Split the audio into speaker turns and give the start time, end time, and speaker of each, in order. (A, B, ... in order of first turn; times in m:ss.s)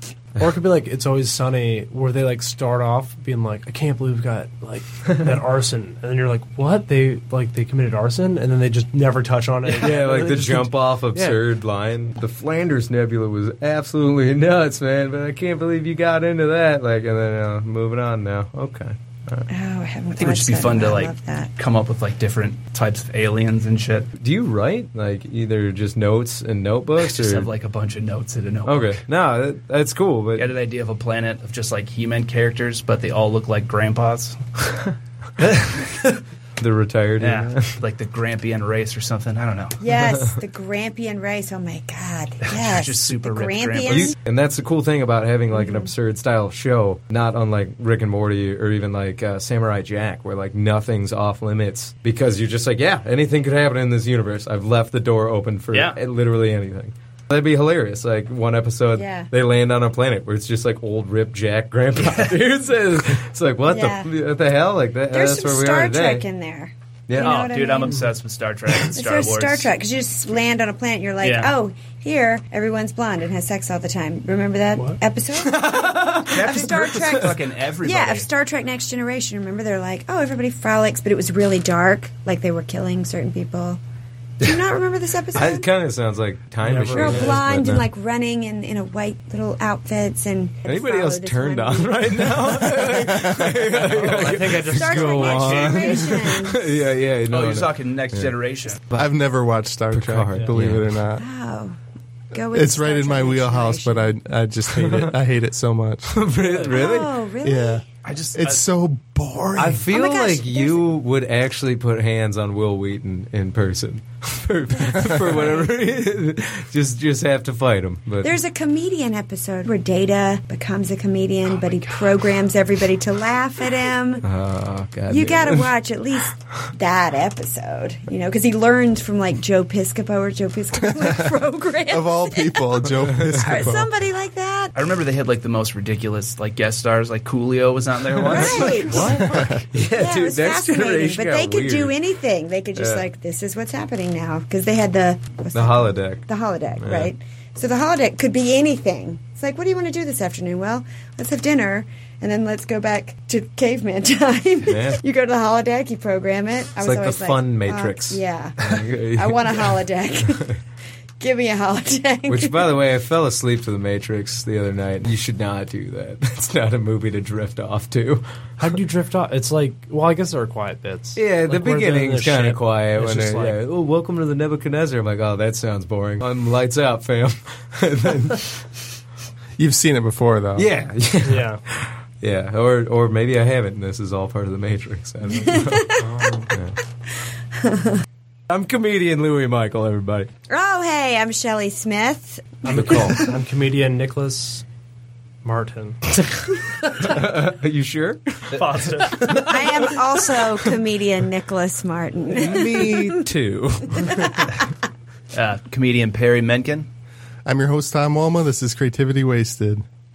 0:00.4-0:11.4 A
0:09.7-0:19.5 B
0:19.5-0:21.5 C
0:20.2-0:24.1 D
0:24.2-0:27.5 B
0:27.0-0:29.0 D
0:28.6-0:30.5 B
0:30.4-0:34.8 D
0:35.4-0:36.2 D
0:36.6-0:37.8 B
0:37.2-0:39.8 D
0:39.8-0:44.2 C
0:40.0-0:40.3 B
0:42.4-0:44.1 D
0:43.9-1:06.3 B
0:45.5-0:45.9 C
0:55.7-0:56.0 D
0:58.9-0:59.3 C
1:02.0-1:02.3 D
1:03.7-1:04.1 C
1:05.1-1:08.0 C
1:07.1-1:07.4 B
1:07.2-1:09.7 D
1:09.0-1:23.8 C
1:11.2-1:11.5 D
1:15.4-1:17.3 B
1:16.3-1:18.3 D
1:24.4-1:25.7 C
1:25.3-1:27.9 B
1:26.6-1:27.4 A
1:26.9-1:33.2 C
1:30.6-1:38.3 B
1:32.9-1:33.8 E
1:33.9-1:35.6 A
1:34.0-1:35.8 D
1:34.6-1:36.6 C
1:37.3-1:38.8 D
1:38.9-1:41.2 E
1:39.9-1:41.0 B
1:41.2-1:41.8 C
1:42.3-1:44.1 C
1:42.5-1:46.1 E
1:44.7-1:45.0 B
1:46.1-1:47.2 B
1:46.6-1:47.8 C
1:47.4-1:49.8 E
1:48.0-1:48.6 D
1:49.6-1:58.4 B
1:49.9-1:50.9 C
1:58.2-2:04.3 C
2:01.6-2:02.2 D
2:04.2-2:05.7 B
2:05.1-2:14.7 C
2:11.9-2:13.9 E
2:14.7-2:19.2 D
2:18.2-2:22.0 B
2:18.3-2:19.2 C
2:19.2-2:19.6 E
2:19.9-2:40.6 C
2:22.8-2:23.1 B
2:25.5-2:27.1 B
2:34.6-2:35.0 B
2:36.8-2:40.4 B
2:41.2-2:42.8 C
2:42.3-2:48.2 B
2:48.6-2:53.6 A
2:51.2-2:58.6 B
2:59.6-3:00.7 E
3:00.6-3:06.0 B
3:01.2-3:01.6 A
3:05.3-3:06.1 C
3:06.0-3:06.5 A
3:07.6-3:08.0 C
3:08.5-3:10.3 B
3:10.5-3:13.3 C
3:12.6-3:14.6 A
3:12.7-3:13.1 B
3:15.4-3:16.0 A
3:17.0-3:18.6 B
3:18.5-3:19.6 A
3:19.1-3:20.7 B
3:19.3-3:23.2 C
3:22.3-3:24.5 B
3:23.9-3:24.6 C
3:25.3-3:26.9 D
3:27.4-3:29.8 E